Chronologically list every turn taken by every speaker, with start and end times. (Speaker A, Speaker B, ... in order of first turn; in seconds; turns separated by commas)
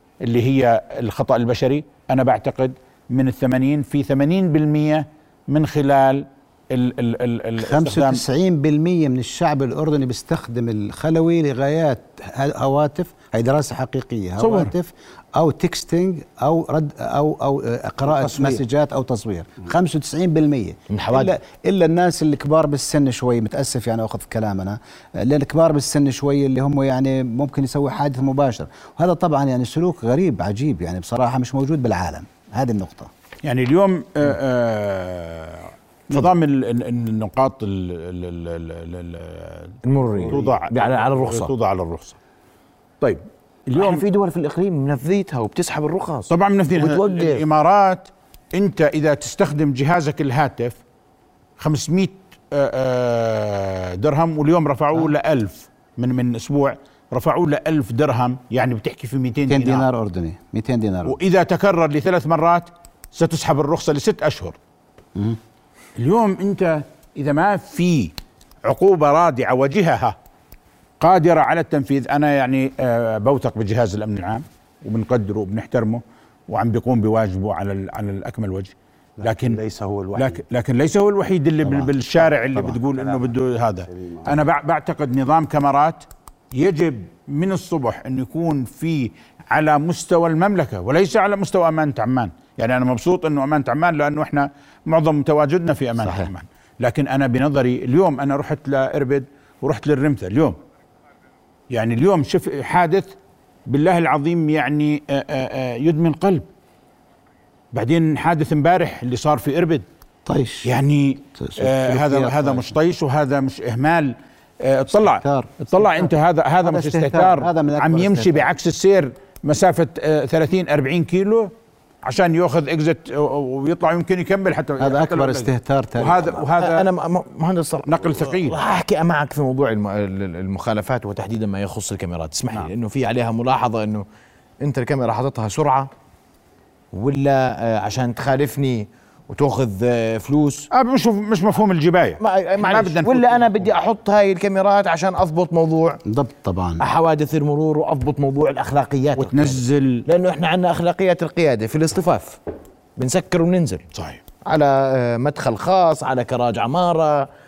Speaker A: 0.2-8.2, Speaker B: 7.6-33.1, Speaker A: 14.4-14.7, Speaker C: 18.1-18.6, Speaker D: 20.9-21.3, Speaker A: 33.4-42.2, Speaker D: 39.8-41.5, Speaker A: 43.0-44.0, Speaker D: 43.8-47.4, Speaker A: 46.3-50.8, Speaker A: 51.6-59.9, Speaker B: 59.5-61.2, Speaker A: 61.1-64.6, Speaker A: 66.0-68.1, Speaker A: 68.7-70.2, Speaker A: 71.0-79.6, Speaker C: 79.2-80.4, Speaker A: 80.2-100.6, Speaker B: 81.6-81.9, Speaker C: 82.9-83.3, Speaker C: 83.9-84.4, Speaker B: 96.0-96.3, Speaker A: 101.7-103.1, Speaker A: 103.7-106.5, Speaker A: 107.7-109.9, Speaker B: 110.3-110.7, Speaker A: 110.6-121.5, Speaker B: 111.4-112.7, Speaker B: 115.2-116.1, Speaker B: 116.6-118.5, Speaker A: 122.0-126.8, Speaker B: 124.8-126.6, Speaker D: 126.6-134.1, Speaker A: 127.9-128.6, Speaker D: 134.6-135.9, Speaker D: 136.9-140.7, Speaker A: 140.7-143.7, Speaker D: 142.2-146.0, Speaker B: 146.1-146.8, Speaker D: 146.8-152.4, Speaker A: 149.2-150.1, Speaker D: 153.0-153.8, Speaker A: 153.9-154.2, Speaker D: 154.5-157.3